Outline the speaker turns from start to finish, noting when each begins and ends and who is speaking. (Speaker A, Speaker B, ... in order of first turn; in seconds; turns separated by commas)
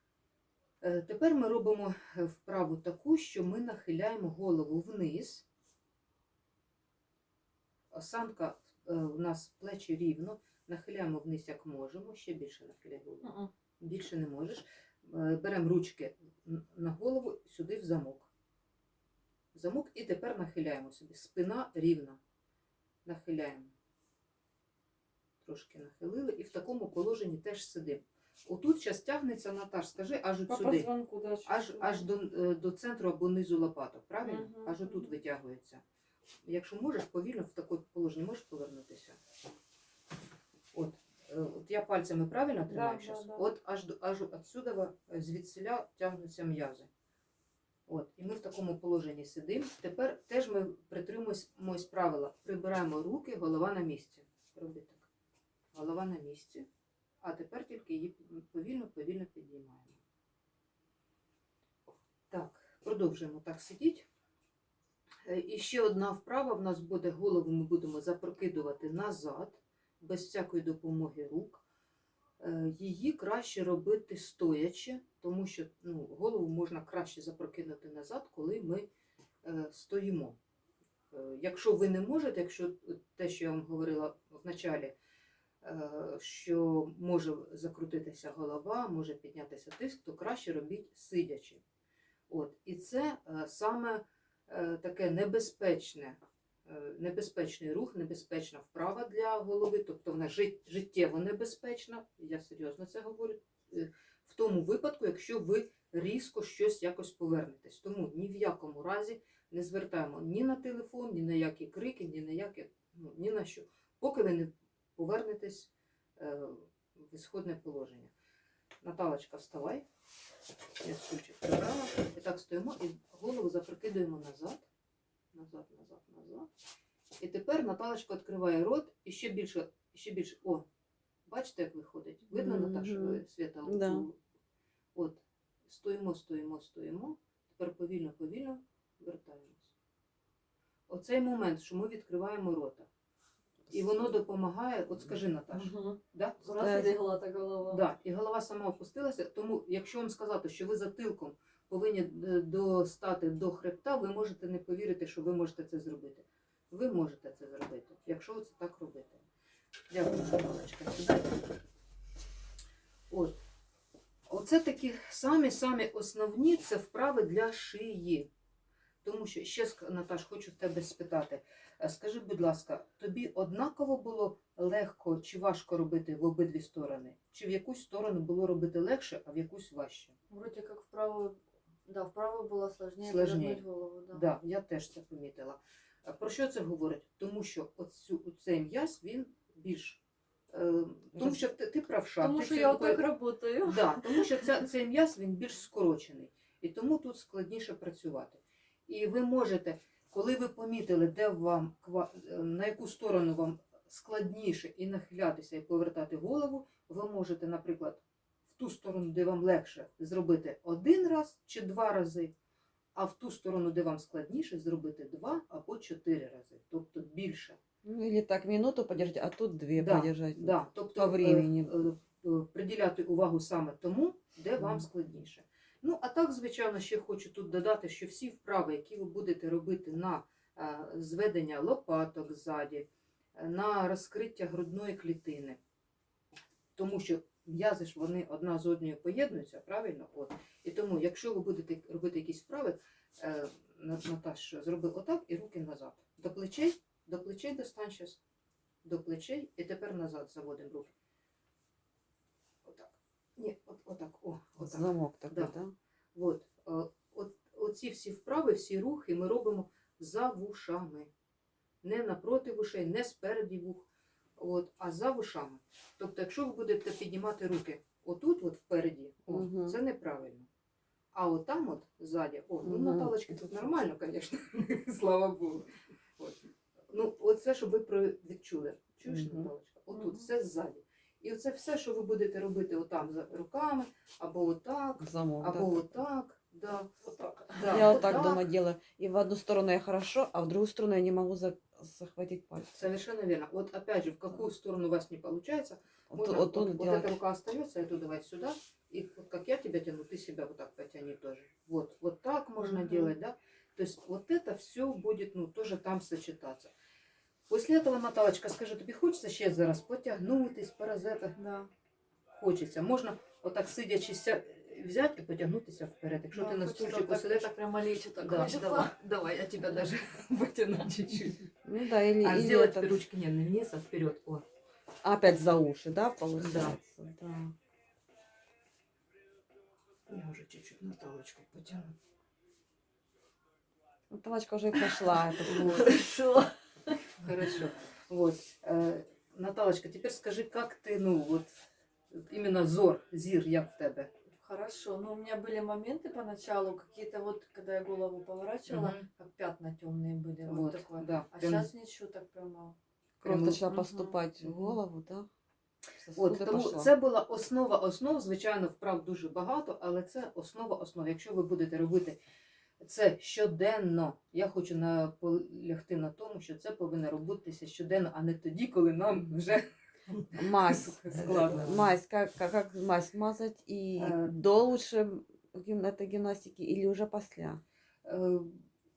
Speaker A: 0.8-5.4, Speaker A: 7.9-13.3, Speaker B: 13.2-13.5, Speaker A: 13.8-18.3, Speaker A: 19.5-22.2, Speaker A: 23.1-23.7, Speaker A: 25.4-30.9, Speaker B: 30.5-32.0, Speaker A: 31.4-35.8, Speaker B: 34.2-34.8, Speaker A: 36.5-39.2, Speaker A: 40.7-46.9, Speaker C: 42.7-43.4, Speaker A: 47.9-55.1, Speaker A: 55.7-56.6, Speaker A: 57.2-60.0, Speaker A: 62.3-64.0, Speaker A: 65.2-71.6, Speaker A: 72.4-78.9, Speaker A: 79.4-80.4, Speaker A: 81.1-84.9, Speaker A: 85.6-91.6, Speaker A: 92.3-118.1, Speaker A: 118.8-119.8, Speaker A: 120.8-124.7, Speaker A: 125.3-126.5, Speaker A: 127.2-130.7, Speaker A: 131.3-134.2, Speaker C: 132.3-134.0, Speaker A: 134.9-139.7, Speaker A: 140.9-142.9, Speaker A: 143.7-146.6, Speaker B: 145.5-147.8, Speaker C: 146.5-147.0, Speaker A: 147.7-159.2, Speaker A: 159.9-161.4, Speaker A: 163.1-163.3, Speaker A: 164.3-168.3, Speaker A: 169.0-180.1, Speaker B: 180.3-184.2, Speaker A: 183.0-193.0, Speaker B: 192.2-194.5, Speaker A: 193.6-212.3, Speaker A: 212.9-217.6, Speaker C: 217.8-221.8, Speaker A: 219.8-235.6, Speaker A: 236.8-248.2, Speaker A: 248.8-250.9, Speaker A: 252.6-255.5, Speaker C: 254.6-255.7, Speaker A: 256.1-261.1, Speaker A: 261.8-270.5, Speaker C: 269.3-269.8, Speaker A: 271.1-276.4, Speaker C: 272.6-273.2, Speaker A: 276.9-286.9, Speaker C: 279.1-280.3, Speaker C: 285.0-286.0, Speaker B: 287.2-287.9, Speaker A: 287.4-288.4, Speaker C: 287.6-292.9, Speaker A: 292.7-306.7, Speaker C: 296.1-297.2, Speaker B: 302.7-303.1, Speaker A: 307.5-311.4, Speaker B: 311.4-311.7, Speaker A: 312.4-317.5, Speaker B: 316.3-318.9, Speaker A: 318.2-321.5, Speaker C: 321.6-323.0, Speaker A: 322.2-324.4, Speaker C: 325.0-327.5, Speaker A: 326.4-326.8, Speaker A: 330.1-331.9, Speaker C: 334.1-335.8, Speaker A: 335.4-336.0, Speaker B: 335.5-337.0, Speaker A: 337.2-344.1, Speaker B: 344.4-352.8, Speaker A: 348.7-349.1, Speaker A: 350.4-351.7, Speaker A: 353.2-353.6, Speaker C: 353.2-355.3, Speaker B: 353.7-354.1, Speaker A: 354.4-354.7, Speaker C: 356.0-356.9, Speaker A: 356.1-362.2, Speaker A: 362.8-369.6, Speaker A: 370.2-371.9, Speaker C: 370.4-377.6, Speaker A: 374.0-374.3, Speaker A: 378.1-378.6